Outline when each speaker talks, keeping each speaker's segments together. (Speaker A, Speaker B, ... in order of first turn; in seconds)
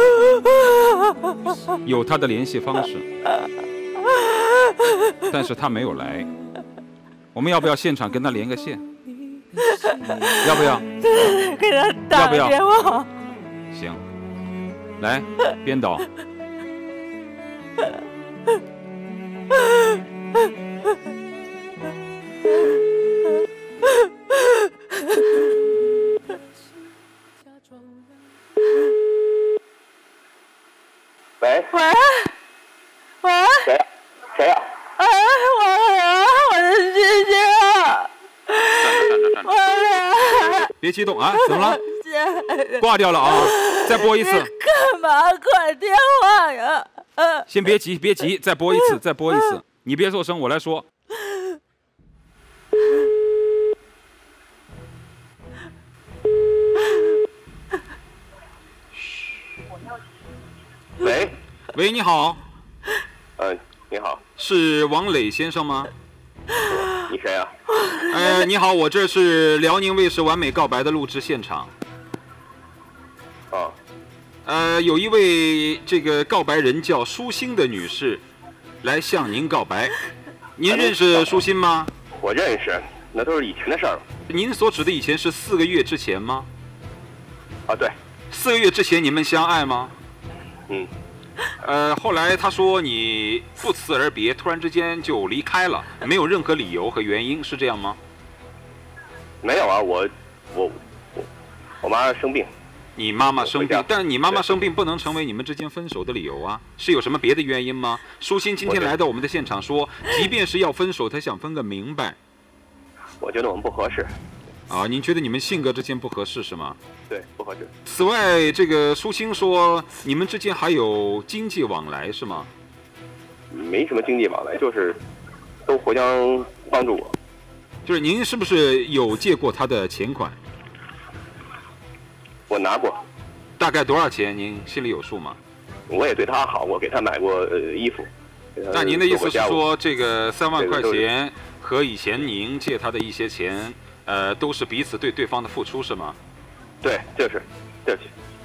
Speaker A: 1.8-3.1, 5.2-6.3, 7.3-8.8, 10.4-11.1, 12.1-12.6, 13.7-14.0, 15.0-16.1, 38.8-39.5, 40.6-41.8, 42.8-44.5, 47.5-50.9, 61.7-62.4, 64.4-65.9, 68.0-71.7, 74.4-78.2, 78.8-80.0, 80.5-81.9, 84.3-86.5, 88.3-89.9, 91.6-98.0, 103.0-112.2, 114.7-116.8, 117.8-122.5, 127.8-130.3, 133.6-135.4, 138.7-146.2
Speaker B: 4.1-5.0, 9.7-13.1, 31.7-32.3, 33.2-33.7, 35.0-40.7, 41.5-42.8, 43.4-47.4
Speaker C: 31.4-31.8, 33.6-34.7, 61.0-61.4, 63.4-64.2, 66.6-67.5, 80.7-81.4, 82.1-84.0, 87.7-87.9, 99.4-101.3, 101.8-102.5, 103.4-104.4, 108.6-108.9, 113.2-114.1, 117.1-117.7, 123.5-125.0, 125.7-127.1, 132.5-133.0, 135.9-139.6, 140.6-141.1, 146.8-148.1